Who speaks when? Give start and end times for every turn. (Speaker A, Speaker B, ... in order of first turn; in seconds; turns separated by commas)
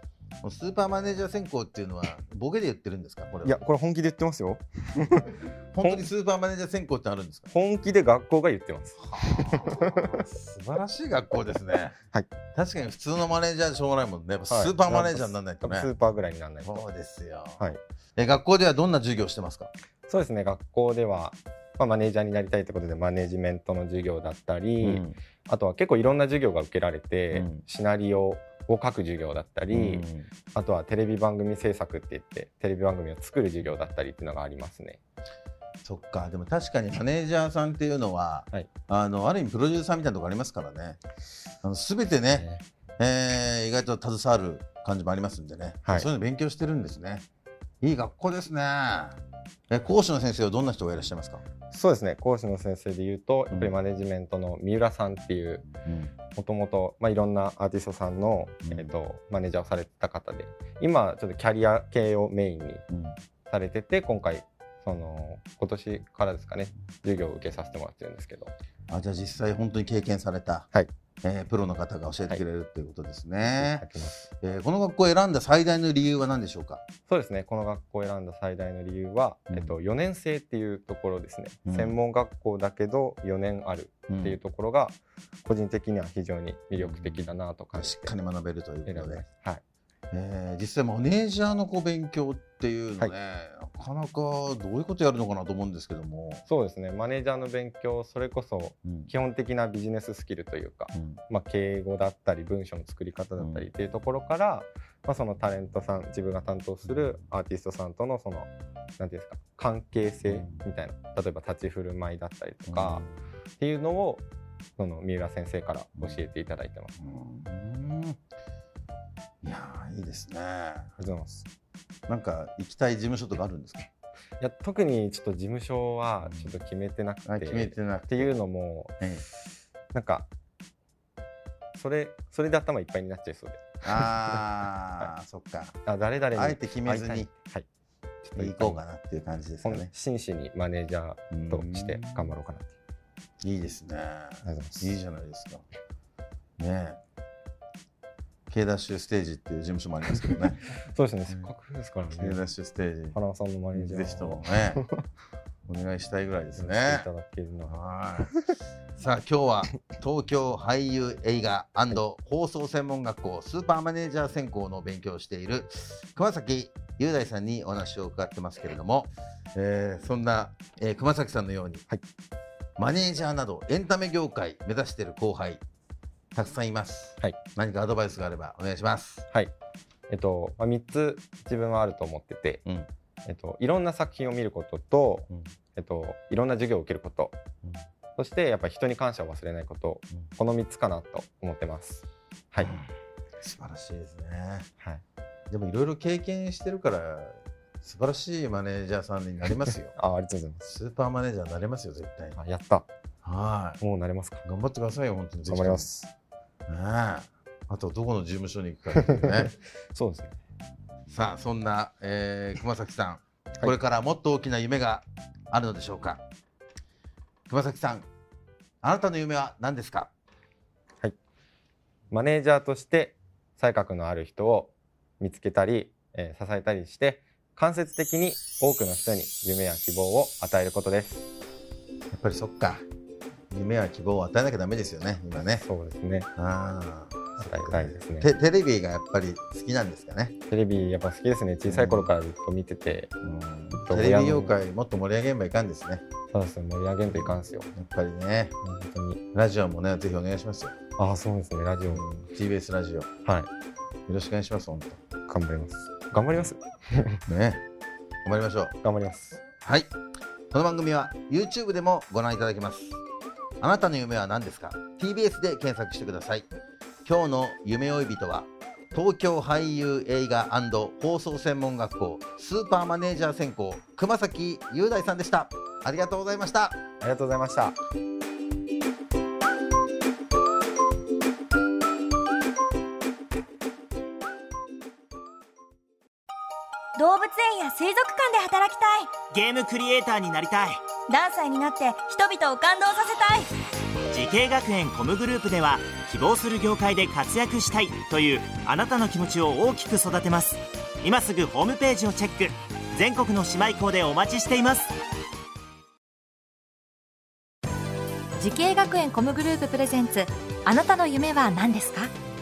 Speaker A: 0.4-3.6, Speaker B: 3.4-6.0, Speaker A: 5.7-7.5, Speaker B: 7.5-10.2, Speaker A: 9.0-11.9, Speaker A: 12.5-15.9, Speaker B: 14.5-16.8, Speaker A: 16.6-17.6, Speaker A: 18.1-19.7, Speaker B: 20.1-35.0, Speaker A: 24.8-25.2, Speaker A: 27.3-27.6, Speaker A: 29.7-30.3, Speaker A: 35.8-41.0, Speaker A: 41.6-42.5, Speaker B: 42.3-42.6, Speaker A: 43.0-47.2, Speaker A: 47.8-49.2, Speaker A: 49.7-51.4, Speaker B: 51.7-55.7, Speaker A: 53.5-53.8, Speaker A: 55.8-56.1, Speaker B: 56.3-62.8, Speaker A: 58.6-58.9, Speaker A: 62.9-63.2, Speaker B: 63.5-68.5, Speaker A: 68.9-70.7, Speaker A: 71.2-73.8, Speaker B: 73.4-74.2, Speaker A: 74.4-76.8, Speaker B: 77.1-88.1, Speaker A: 81.6-82.0, Speaker A: 84.1-84.4, Speaker A: 86.8-89.2, Speaker B: 88.8-89.6, Speaker A: 90.1-96.4, Speaker B: 96.5-113.0, Speaker A: 98.8-99.1, Speaker A: 100.9-101.2, Speaker A: 103.4-103.7, Speaker A: 110.2-110.6, Speaker A: 112.7-113.1, Speaker B: 113.6-114.2, Speaker B: 114.8-116.9, Speaker A: 117.0-118.2, Speaker A: 119.4-120.9, Speaker B: 121.0-121.5, Speaker A: 122.1-123.9, Speaker B: 124.4-128.9, Speaker A: 126.2-126.5, Speaker A: 127.2-128.3, Speaker A: 129.0-129.2, Speaker B: 129.9-130.3, Speaker B: 131.7-134.4, Speaker A: 133.8-135.8, Speaker B: 135.8-137.7, Speaker A: 136.3-137.3, Speaker B: 138.2-138.8, Speaker A: 138.3-139.9, Speaker B: 139.6-142.7, Speaker A: 141.3-142.3, Speaker A: 143.4-145.6, Speaker B: 144.4-144.9, Speaker A: 146.6-147.0, Speaker A: 148.5-150.6, Speaker B: 150.9-152.4, Speaker A: 152.1-153.2, Speaker B: 153.1-155.0, Speaker A: 153.7-154.8, Speaker A: 155.7-157.1, Speaker B: 156.6-157.7, Speaker A: 157.7-158.3, Speaker A: 159.0-171.8, Speaker A: 172.8-175.6, Speaker A: 176.3-179.2, Speaker B: 180.1-182.6, Speaker B: 183.2-187.3, Speaker B: 188.2-192.7, Speaker A: 192.6-192.9, Speaker A: 193.4-194.7, Speaker A: 195.5-199.9, Speaker B: 199.9-200.6, Speaker A: 200.6-202.4, Speaker B: 202.3-202.8, Speaker A: 203.2-203.8, Speaker B: 203.8-204.4, Speaker A: 204.4-205.9, Speaker B: 205.5-206.1, Speaker A: 206.7-209.5, Speaker B: 209.0-210.4, Speaker A: 211.1-216.2, Speaker A: 217.5-218.1, Speaker A: 218.8-220.1, Speaker B: 222.1-231.3, Speaker A: 232.1-232.8, Speaker A: 233.5-235.6, Speaker B: 235.5-236.3, Speaker A: 236.3-240.3, Speaker B: 237.4-238.3, Speaker B: 240.5-243.1, Speaker A: 241.7-242.1, Speaker A: 243.2-246.0, Speaker B: 243.8-244.5, Speaker B: 246.3-247.7, Speaker A: 247.1-248.5, Speaker B: 248.6-249.2, Speaker A: 249.3-250.7, Speaker B: 251.0-252.0, Speaker A: 251.9-253.1, Speaker B: 253.2-253.5, Speaker A: 254.1-255.0, Speaker B: 255.3-257.2, Speaker A: 257.3-257.6, Speaker A: 258.2-258.8, Speaker B: 258.8-259.4, Speaker A: 259.6-259.9, Speaker A: 260.5-263.0, Speaker A: 263.6-266.5, Speaker A: 267.0-276.8, Speaker B: 277.0-277.8, Speaker C: 286.9-289.2, Speaker D: 289.3-290.8, Speaker C: 291.1-293.5, Speaker D: 294.1-304.9, Speaker E: 308.4-312.1